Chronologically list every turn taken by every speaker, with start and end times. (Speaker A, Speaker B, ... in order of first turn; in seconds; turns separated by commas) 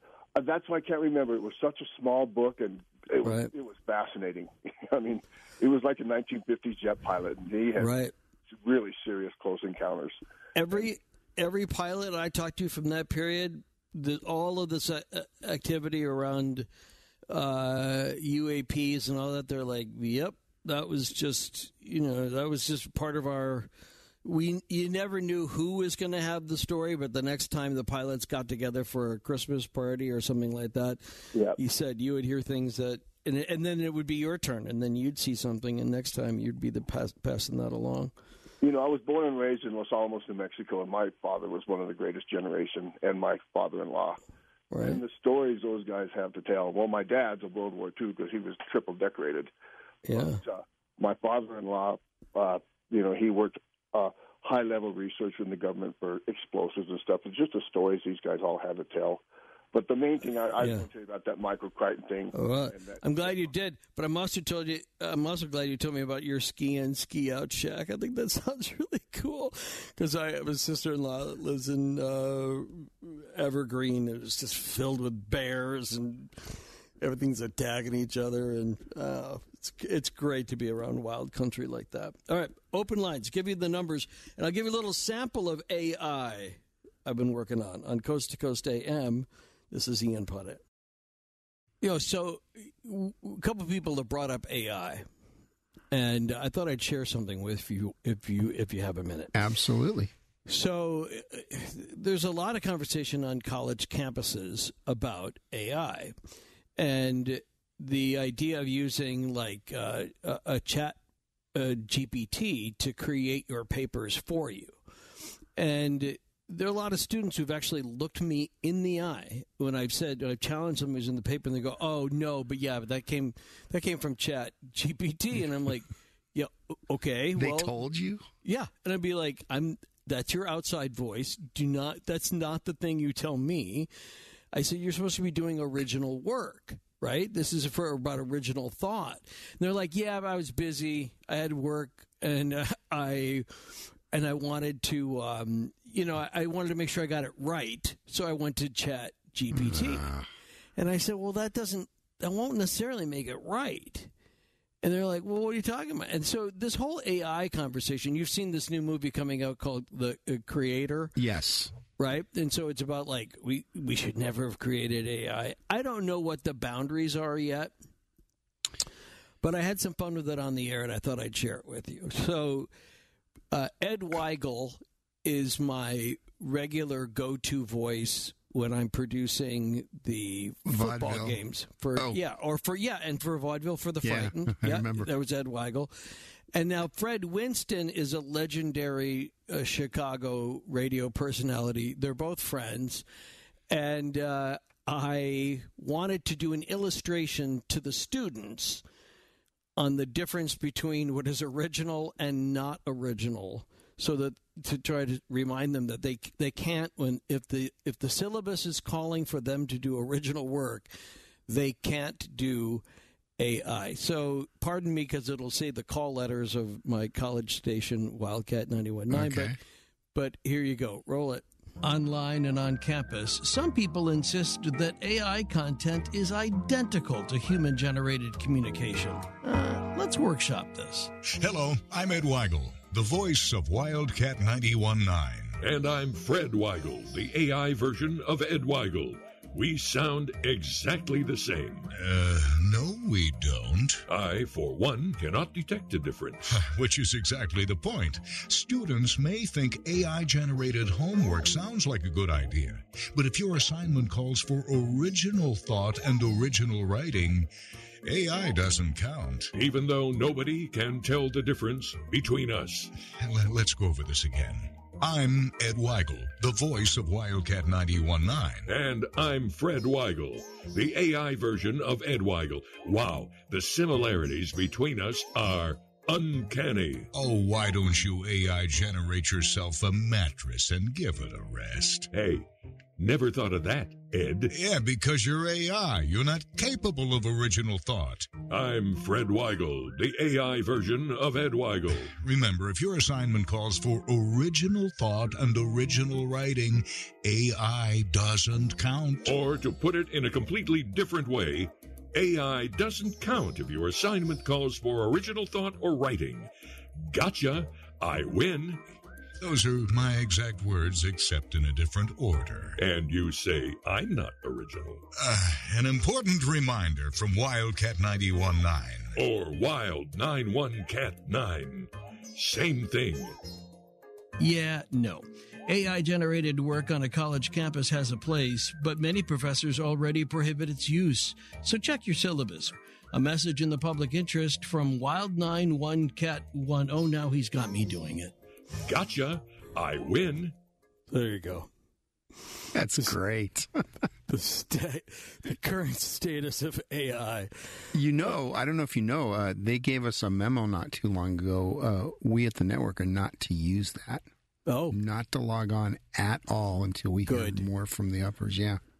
Speaker A: 0.3-7.9, Speaker B: 3.2-3.5, Speaker B: 7.8-8.1, Speaker A: 8.5-10.2, Speaker B: 10.6-16.7, Speaker B: 17.3-23.7, Speaker B: 24.2-38.1, Speaker A: 38.6-44.2, Speaker B: 44.7-45.0, Speaker A: 44.8-49.5, Speaker B: 50.0-50.4, Speaker A: 50.1-59.2, Speaker A: 59.7-63.5, Speaker B: 60.6-60.9, Speaker B: 62.3-90.6, Speaker B: 91.8-95.1, Speaker B: 95.9-99.3, Speaker C: 99.3-100.1, Speaker B: 100.5-106.1, Speaker B: 106.8-111.0, Speaker B: 111.5-114.8, Speaker B: 115.6-127.8, Speaker C: 127.3-128.3, Speaker B: 128.4-133.9, Speaker B: 134.5-150.1, Speaker C: 149.5-150.3, Speaker B: 150.8-154.1, Speaker B: 154.8-161.1, Speaker C: 161.2-161.7, Speaker B: 162.0-167.7, Speaker B: 169.4-172.7, Speaker B: 173.5-193.1, Speaker C: 180.7-181.4, Speaker C: 181.9-182.2, Speaker C: 184.0-185.1, Speaker B: 193.7-198.8, Speaker B: 199.8-210.9, Speaker B: 211.5-212.8, Speaker B: 213.4-219.6, Speaker C: 219.1-219.6, Speaker B: 220.1-231.1, Speaker D: 231.3-235.6, Speaker E: 235.6-241.9, Speaker D: 241.9-244.0, Speaker E: 244.1-246.4, Speaker D: 246.4-257.5, Speaker D: 258.1-259.5, Speaker E: 259.6-262.9, Speaker D: 263.1-268.7, Speaker E: 268.6-277.1, Speaker D: 277.1-282.1, Speaker E: 282.1-282.5, Speaker E: 283.0-284.5, Speaker D: 284.5-288.3, Speaker E: 288.5-292.1, Speaker D: 292.1-299.4, Speaker E: 299.2-306.5, Speaker E: 307.1-308.8, Speaker D: 309.4-312.8, Speaker E: 312.8-315.1, Speaker D: 315.2-319.2, Speaker E: 319.1-323.4, Speaker B: 324.4-338.3, Speaker E: 338.9-340.6, Speaker B: 341.1-341.7, Speaker C: 342.7-343.7, Speaker B: 344.3-348.3, Speaker C: 347.9-354.2, Speaker B: 354.7-355.0, Speaker C: 354.9-358.8, Speaker B: 357.3-357.6